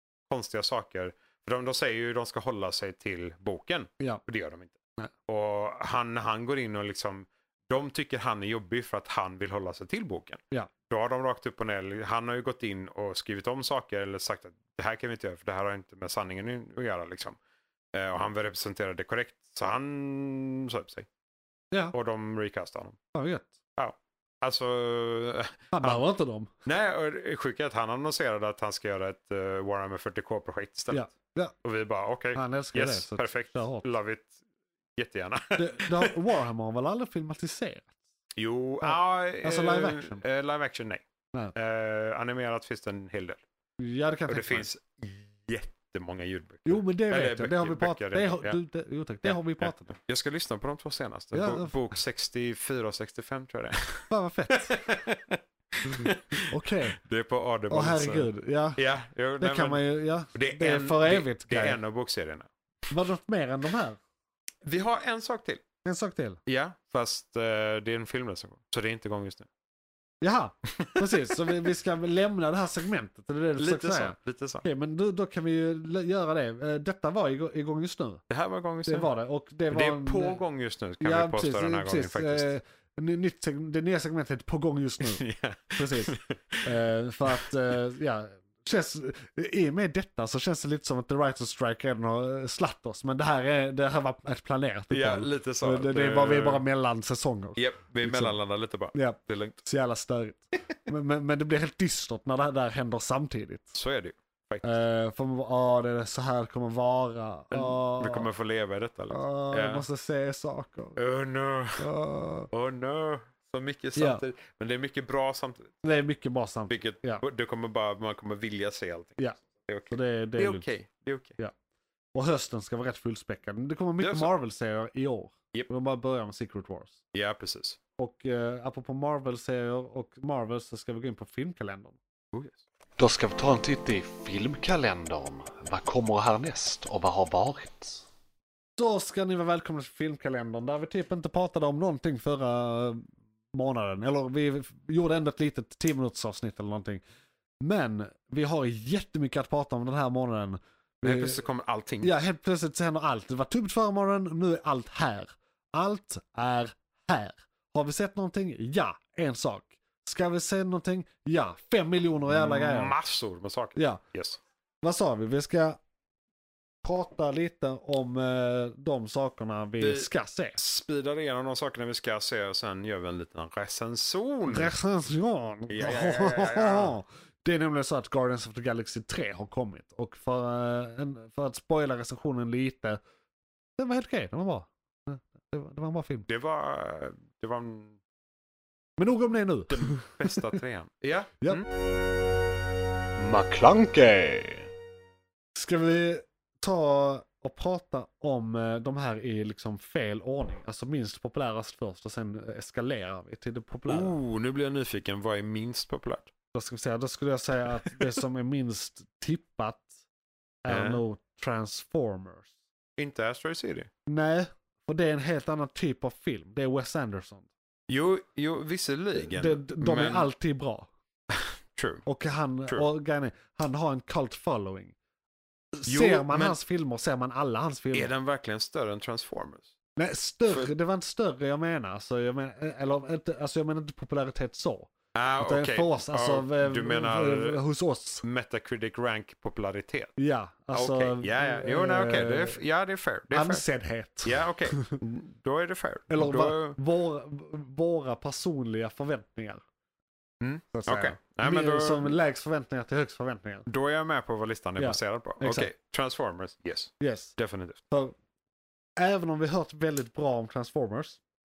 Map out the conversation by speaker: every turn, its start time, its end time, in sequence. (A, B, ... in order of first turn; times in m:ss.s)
0:00.3-0:17.4 A
0:17.9-0:21.1 A
0:21.9-0:23.0 A
0:23.1-0:23.5 B
0:23.8-0:26.0 A
0:25.7-0:26.5 B
0:26.6-0:34.4 A
0:30.9-0:31.5 B
0:32.3-0:33.8 B
0:35.0-0:36.2 A
0:35.6-0:37.9 B
0:38.4-0:43.4 A
0:38.8-0:40.2 B
0:43.8-0:44.7 B
0:44.3-0:48.6 A
0:46.6-0:49.9 B
0:49.2-1:02.5 A
0:51.3-0:51.8 B
0:54.1-0:54.8 B
0:55.8-0:57.0 B
0:57.7-0:58.8 B
0:59.4-1:01.8 B
1:02.9-1:04.0 B
1:04.6-1:05.6 A
1:05.8-1:06.4 B
1:06.4-1:09.5 A
1:10.2-1:18.2 B
1:10.7-1:11.5 A
1:13.6-1:14.6 A
1:18.3-1:19.1 A
1:18.8-1:20.4 B
1:19.7-1:22.5 A
1:21.0-1:25.2 B
1:25.0-1:26.7 A
1:25.8-1:38.4 B
1:34.9-1:36.6 A
1:37.6-1:39.6 A
1:38.9-1:43.7 B
1:43.7-1:44.8 A
1:44.6-1:48.3 B
1:47.5-1:49.9 A
1:49.1-1:51.0 B
1:51.0-1:51.9 A
1:51.8-1:52.5 B
1:52.5-1:55.7 A
1:54.0-1:54.2 B
1:55.8-1:57.2 B
1:56.7-2:01.4 A
1:59.9-2:00.7 B
2:02.1-2:07.0 B
2:04.0-2:04.3 A
2:07.1-2:07.8 A
2:08.0-2:12.0 B
2:12.3-2:12.6 A
2:13.0-2:18.0 C
2:18.8-2:27.0 B
2:27.6-2:31.4 B
2:31.0-2:32.2 A
2:32.0-2:42.9 B
2:42.3-2:44.4 A
2:43.8-2:44.0 B
2:44.8-2:45.8 B
2:46.8-2:50.6 B
2:49.8-2:54.7 A
2:54.5-3:03.0 B
2:55.7-2:57.0 A
3:03.8-3:06.3 B
3:06.3-3:08.0 A
3:09.0-3:10.4 B
3:09.7-3:11.7 A
3:13.2-3:14.7 C
3:15.5-3:24.2 B
3:23.9-3:26.3 A
3:26.5-3:29.9 B
3:30.6-3:32.5 B
3:30.7-3:31.0 A
3:33.0-3:33.9 A
3:34.1-3:37.5 B
3:37.9-3:40.3 A
3:39.2-3:40.9 B
3:41.3-3:42.0 A
3:42.0-3:44.9 B
3:45.7-3:48.1 B
3:45.9-3:46.6 A
3:47.9-3:49.7 A
3:50.0-3:58.2 B
3:55.1-3:57.6 A
3:58.2-4:00.1 A
4:00.2-4:02.6 B
4:00.7-4:03.6 A
4:03.3-4:05.0 B
4:04.2-4:06.8 A
4:06.1-4:09.6 B
4:10.4-4:12.2 A
4:10.7-4:13.6 B
4:13.7-4:17.8 A
4:14.8-4:15.7 B
4:17.0-4:17.3 B
4:17.9-4:18.1 B
4:19.0-4:21.2 B